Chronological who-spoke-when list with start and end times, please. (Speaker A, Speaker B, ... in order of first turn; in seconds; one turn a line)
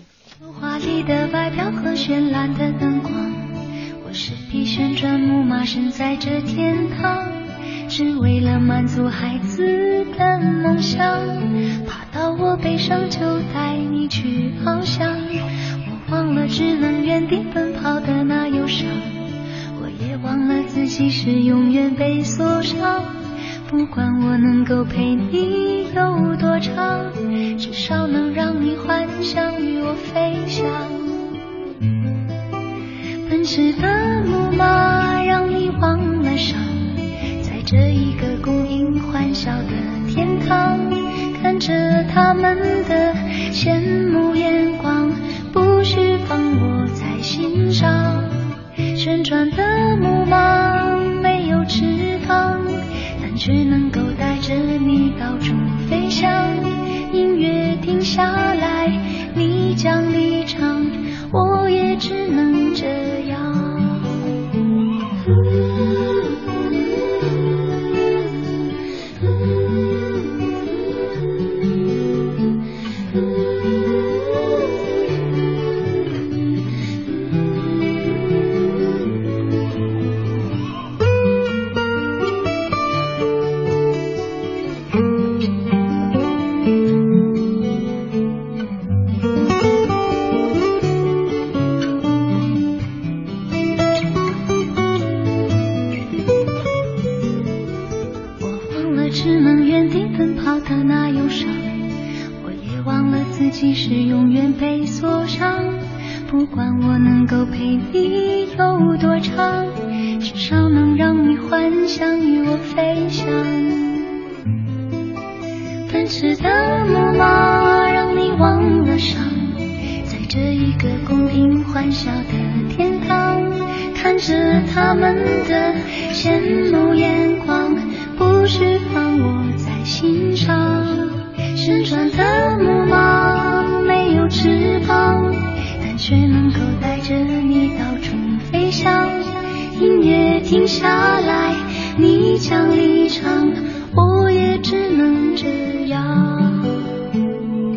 Speaker A: 0.4-31.1
Speaker A: 33.2-64.2
Speaker A: 98.4-114.0
Speaker A: 115.9-146.7